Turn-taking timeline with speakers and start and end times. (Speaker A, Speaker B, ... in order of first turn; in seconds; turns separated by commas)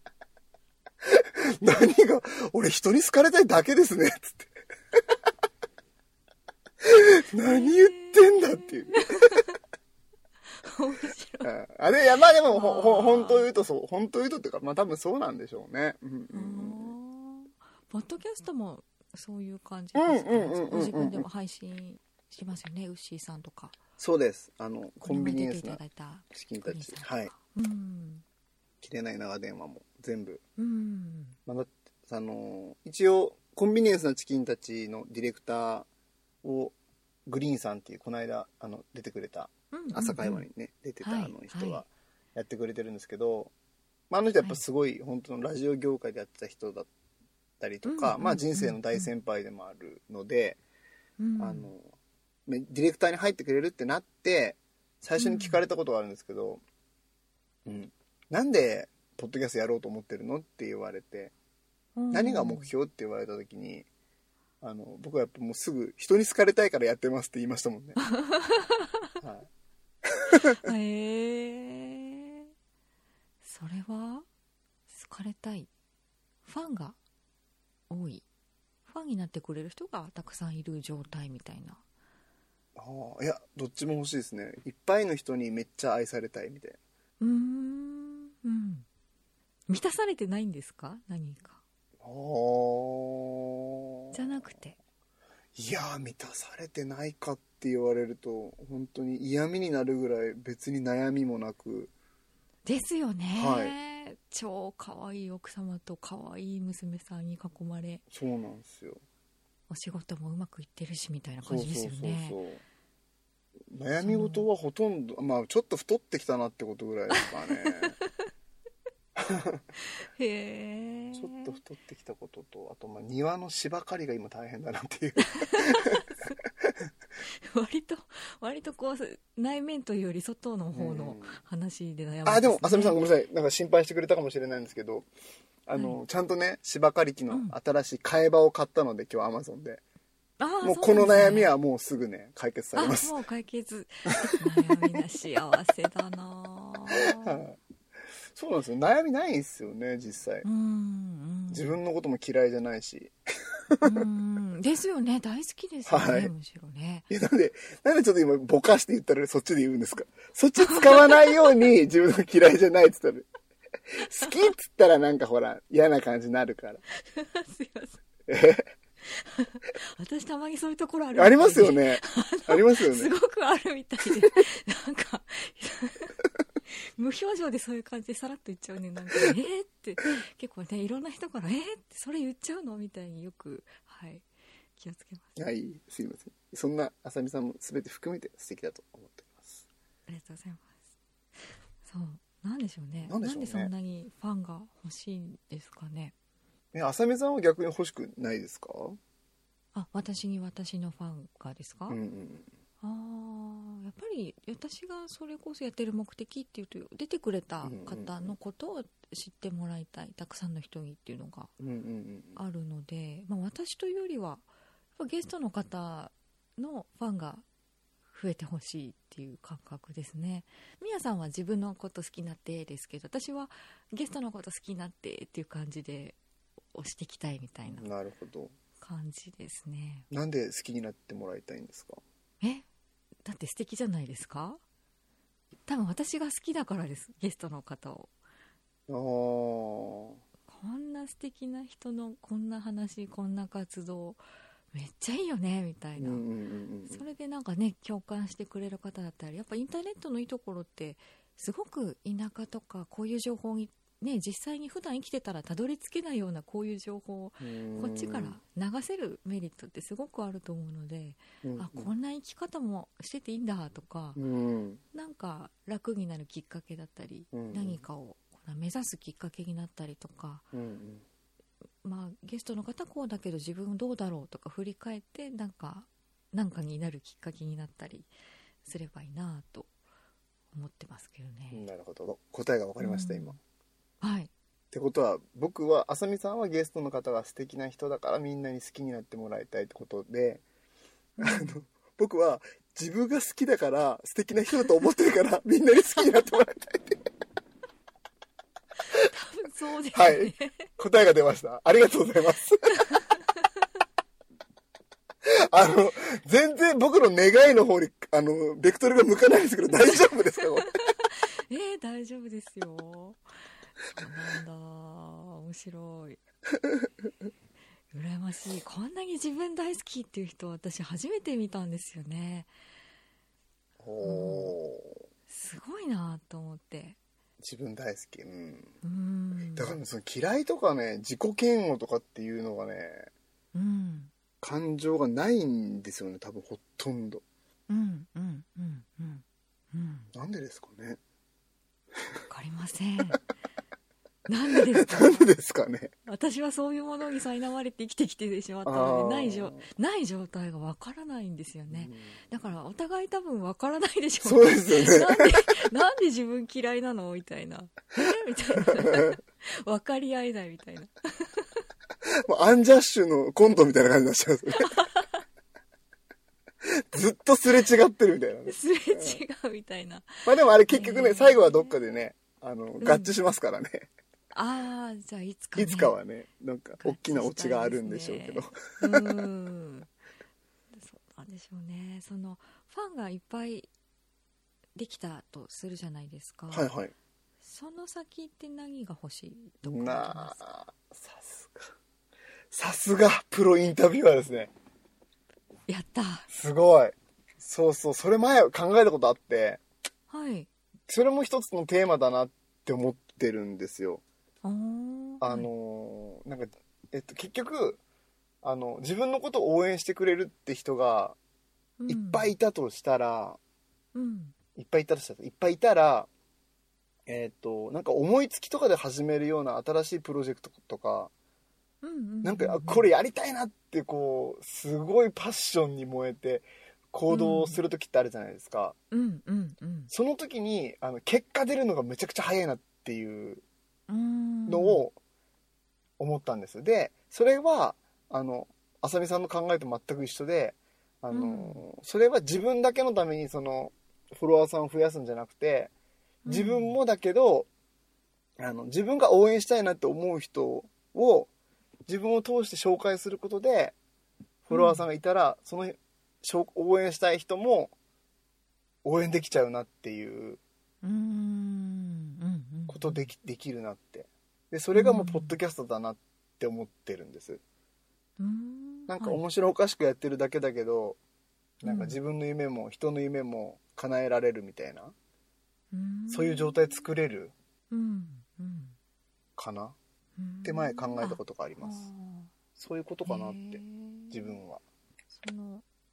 Speaker A: 1.0-4.5, Speaker A: 6.8-9.0, Speaker B: 7.4-9.6, Speaker B: 10.5-11.5, Speaker A: 11.4-16.9, Speaker B: 12.4-13.5, Speaker B: 16.3-23.8, Speaker A: 19.9-21.3, Speaker A: 24.0-25.8, Speaker B: 25.0-28.2, Speaker A: 26.3-27.3, Speaker A: 28.8-30.4, Speaker B: 30.6-31.4, Speaker A: 31.4-35.9, Speaker A: 36.4-36.7, Speaker A: 37.2-43.5, Speaker B: 39.7-40.5, Speaker B: 41.0-41.8, Speaker A: 44.1-46.9, Speaker A: 47.6-50.6, Speaker B: 47.9-49.1, Speaker B: 51.2-51.7, Speaker A: 51.4-51.9, Speaker A: 52.5-56.6, Speaker B: 55.2-55.6, Speaker A: 57.6-61.3, Speaker B: 62.0-62.7, Speaker A: 62.1-63.9, Speaker A: 64.6-68.0, Speaker B: 68.0-68.9, Speaker A: 69.2-69.5, Speaker A: 70.0-70.6, Speaker B: 70.5-72.5, Speaker B: 73.4-74.2, Speaker B: 74.9-75.7, Speaker B: 76.4-77.0, Speaker B: 77.9-78.2, Speaker B: 78.8-81.8, Speaker A: 82.7-86.8, Speaker B: 87.2-88.8, Speaker B: 89.7-91.6, Speaker A: 92.0-94.2, Speaker B: 94.1-94.8, Speaker A: 95.5-101.9, Speaker B: 102.7-108.0, Speaker A: 103.3-103.7, Speaker A: 108.1-109.0, Speaker B: 109.7-112.4, Speaker A: 111.4-112.6, Speaker A: 113.7-117.9, Speaker B: 114.0-114.5, Speaker B: 117.1-118.0, Speaker A: 119.2-119.6, Speaker B: 119.8-121.6, Speaker A: 121.1-126.0, Speaker B: 125.2-126.4, Speaker B: 127.2-133.0, Speaker A: 130.8-131.4, Speaker A: 132.2-135.1, Speaker A: 135.7-139.8, Speaker B: 135.7-136.0, Speaker B: 137.3-137.5, Speaker B: 140.4-141.5, Speaker A: 140.6-143.1, Speaker B: 142.7-147.4, Speaker A: 144.2-144.8, Speaker A: 146.9-147.6, Speaker A: 148.3-150.4, Speaker B: 150.4-151.7, Speaker A: 151.5-153.1, Speaker A: 153.7-154.0, Speaker B: 153.8-157.1, Speaker A: 155.9-156.3, Speaker A: 157.1-163.3, Speaker B: 160.6-161.4, Speaker A: 163.9-166.8, Speaker B: 164.2-164.4, Speaker B: 167.0-168.0, Speaker A: 168.3-168.7, Speaker B: 169.0-176.2, Speaker A: 171.1-173.1, Speaker B: 176.7-184.2, Speaker B: 184.8-185.3, Speaker A: 185.3-189.6, Speaker B: 190.1-190.7, Speaker B: 191.8-196.1, Speaker A: 193.1-193.7, Speaker A: 196.7-199.0, Speaker B: 199.7-202.0, Speaker A: 201.9-202.5, Speaker B: 202.8-211.5, Speaker A: 207.6-208.3, Speaker A: 211.6-212.4, Speaker B: 212.3-214.4, Speaker B: 215.0-217.4, Speaker B: 218.1-226.2, Speaker B: 226.7-227.9, Speaker A: 227.7-228.5, Speaker B: 228.8-230.1, Speaker A: 230.1-232.0, Speaker B: 233.2-234.6, Speaker B: 235.7-238.1, Speaker A: 238.9-240.2, Speaker B: 240.5-244.2, Speaker B: 244.7-246.2, Speaker A: 246.0-247.0, Speaker B: 246.8-264.2, Speaker A: 257.4-258.4, Speaker A: 261.4-261.9, Speaker A: 264.1-264.8, Speaker B: 264.9-270.4, Speaker A: 267.3-267.8, Speaker A: 270.5-271.0, Speaker B: 271.8-278.1, Speaker B: 278.6-279.7, Speaker B: 280.5-281.6, Speaker A: 281.5-283.4, Speaker B: 282.8-283.4, Speaker B: 284.0-284.3, Speaker A: 284.7-290.4, Speaker B: 291.2-291.6, Speaker A: 291.2-297.0, Speaker B: 298.8-300.7, Speaker A: 299.9-302.9, Speaker B: 302.8-303.2, Speaker A: 305.2-310.7, Speaker B: 310.7-313.2, Speaker B: 313.9-316.2, Speaker B: 317.9-322.5, Speaker A: 323.8-325.0, Speaker B: 324.0-324.5, Speaker B: 325.3-327.0, Speaker A: 327.4-328.7, Speaker B: 328.8-329.8, Speaker A: 329.5-333.1, Speaker B: 333.5-334.1, Speaker A: 334.4-337.2, Speaker B: 337.7-340.1, Speaker A: 340.1-341.0, Speaker B: 342.3-343.2, Speaker B: 344.3-345.3, Speaker A: 344.5-345.9, Speaker B: 346.1-361.5, Speaker A: 348.6-349.6, Speaker A: 351.7-352.2, Speaker A: 354.2-355.5, Speaker A: 358.6-359.1, Speaker A: 362.2-364.7, Speaker B: 364.5-365.1, Speaker A: 366.6-369.2, Speaker B: 368.4-371.8, Speaker A: 370.2-373.9, Speaker B: 372.8-373.2, Speaker B: 374.3-376.0, Speaker A: 375.6-379.2, Speaker B: 376.8-379.9, Speaker B: 380.7-383.7, Speaker B: 384.8-386.7, Speaker A: 386.5-386.9, Speaker B: 387.4-390.4, Speaker A: 389.6-391.7, Speaker A: 392.5-394.5, Speaker B: 395.7-396.3, Speaker A: 396.3-399.6, Speaker B: 400.1-400.5, Speaker A: 400.9-404.0, Speaker B: 404.4-405.5, Speaker A: 405.2-407.8, Speaker A: 408.4-411.1, Speaker B: 411.8-412.3, Speaker A: 411.9-413.4, Speaker B: 413.9-414.3, Speaker A: 414.6-416.1, Speaker A: 417.1-421.1, Speaker B: 421.8-422.9, Speaker A: 422.2-428.7, Speaker B: 427.1-427.6, Speaker B: 428.9-429.9, Speaker A: 429.9-433.4, Speaker B: 433.9-434.8, Speaker A: 434.5-434.9, Speaker A: 436.0-445.7, Speaker B: 441.1-441.6, Speaker B: 446.2-446.8, Speaker A: 446.3-447.5, Speaker A: 448.4-451.3, Speaker A: 451.9-453.7, Speaker A: 454.5-457.7, Speaker B: 454.5-454.8, Speaker A: 458.8-460.4, Speaker B: 460.8-463.0, Speaker A: 462.7-467.4, Speaker B: 464.7-465.4, Speaker B: 468.2-469.2, Speaker A: 468.9-471.0, Speaker A: 471.6-474.9, Speaker B: 471.6-472.0, Speaker B: 475.7-476.9, Speaker A: 476.1-477.3, Speaker B: 477.7-478.8, Speaker A: 479.4-479.8, Speaker B: 480.2-482.3, Speaker A: 480.4-481.9, Speaker A: 482.6-484.6, Speaker B: 483.0-484.4, Speaker B: 485.1-485.6